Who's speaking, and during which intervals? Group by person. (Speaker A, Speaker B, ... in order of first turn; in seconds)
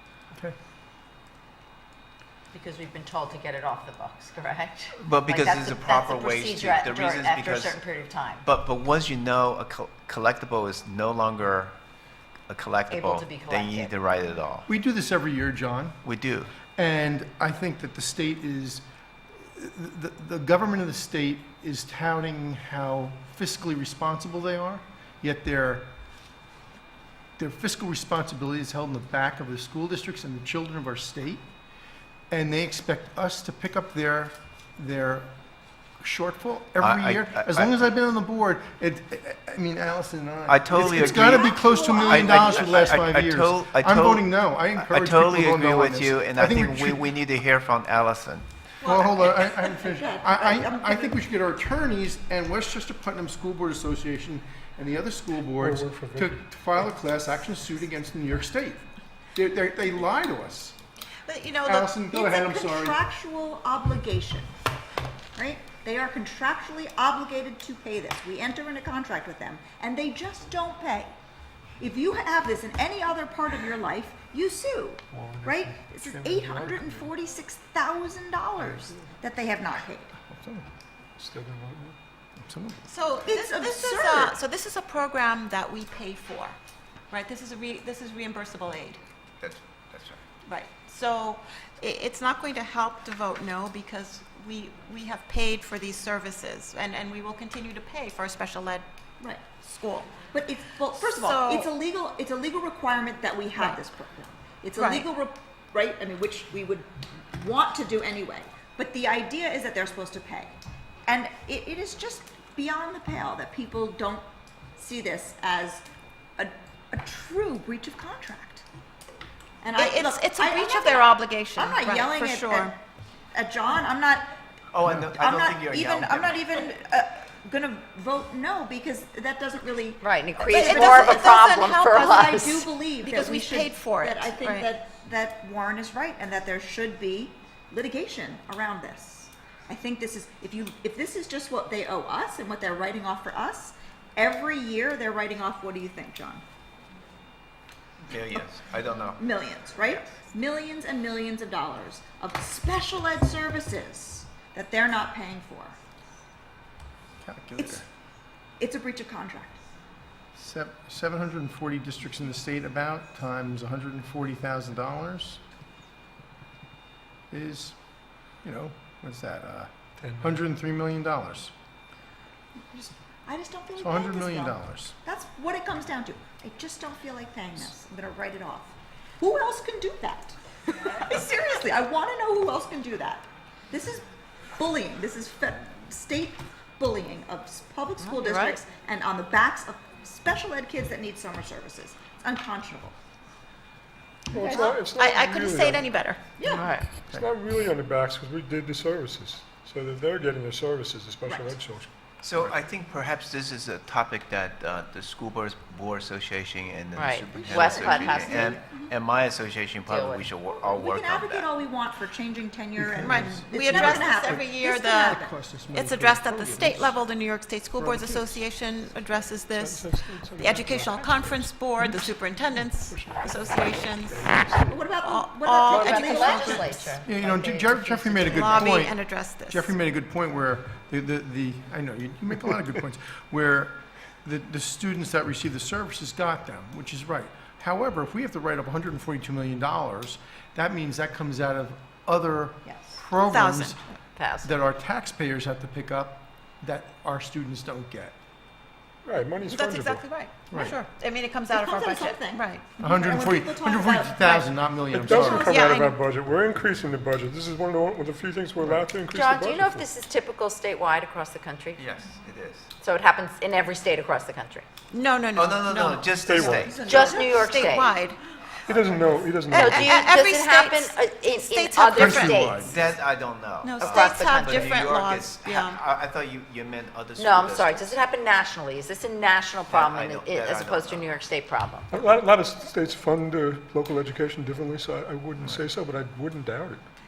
Speaker A: 2.5-8.4, 12.9-13.9, 130.0-132.4, 196.5-197.1, 207.0-208.6, 209.8-210.3, 225.7-228.6, 244.2-244.5, 259.1-261.8, 262.8-264.7, 266.8-267.9, 269.5-272.7, 273.8-274.9, 277.2-282.1
Speaker B: 5.0-7.8, 8.4-11.8, 12.5-14.7, 16.0-16.5, 36.8-37.9, 40.5-48.5, 89.4-90.2, 124.7-126.5, 148.1-149.2, 202.2-211.5, 261.8-262.7, 265.4-266.9, 272.6-278.0, 279.7-281.1
Speaker C: 14.7-16.0, 16.8-18.9, 19.4-25.9, 27.4-31.5, 32.3-35.3, 36.0-47.1, 48.8-60.8, 61.6-63.0, 80.3-80.7, 82.4-82.8, 157.2-157.8, 160.3-165.4, 167.3-167.8, 168.4-171.5, 173.8-175.0, 212.8-217.0, 217.8-218.4, 226.5-243.8, 244.4-248.2, 250.5-250.8, 252.8-255.6, 271.9-272.8
Speaker D: 40.8-43.0, 49.4-51.2, 62.1-64.5, 65.4-71.2, 71.8-80.1, 83.3-84.4, 100.3-114.3, 114.8-115.8, 116.4-118.6, 119.6-122.8, 123.3-124.3, 125.1-131.4, 132.0-146.4, 149.2-155.8, 157.6-157.8, 158.6-159.6, 172.7-192.9, 194.3-194.8, 196.4-196.8, 201.2-201.6, 207.5-208.9, 210.6-215.4, 224.6-226.9, 242.7-243.0, 251.5-254.5, 255.1-255.9, 266.6-267.7
Speaker E: 48.8-49.6, 61.3-62.0, 82.9-86.6, 87.1-89.0, 90.5-98.9, 99.6-100.2, 100.9-101.7, 104.8-105.1, 119.8-122.7, 130.5-134.7, 188.2-188.6, 194.5-196.2, 213.0-215.2, 215.7-224.3, 225.0-226.6, 228.2-229.7, 243.2-243.8, 249.4-252.7, 255.5-255.9, 264.9-266.2, 266.8-268.2, 269.5-272.5, 273.6-275.8
Speaker F: 55.6-56.9, 75.1-77.1, 78.6-79.0, 81.2-82.0, 170.0-170.4, 194.3-195.9, 197.1-202.6, 219.5-224.9, 225.7-226.3, 249.1-250.1, 254.9-259.9, 266.2-266.8, 268.6-270.1, 281.9-286.9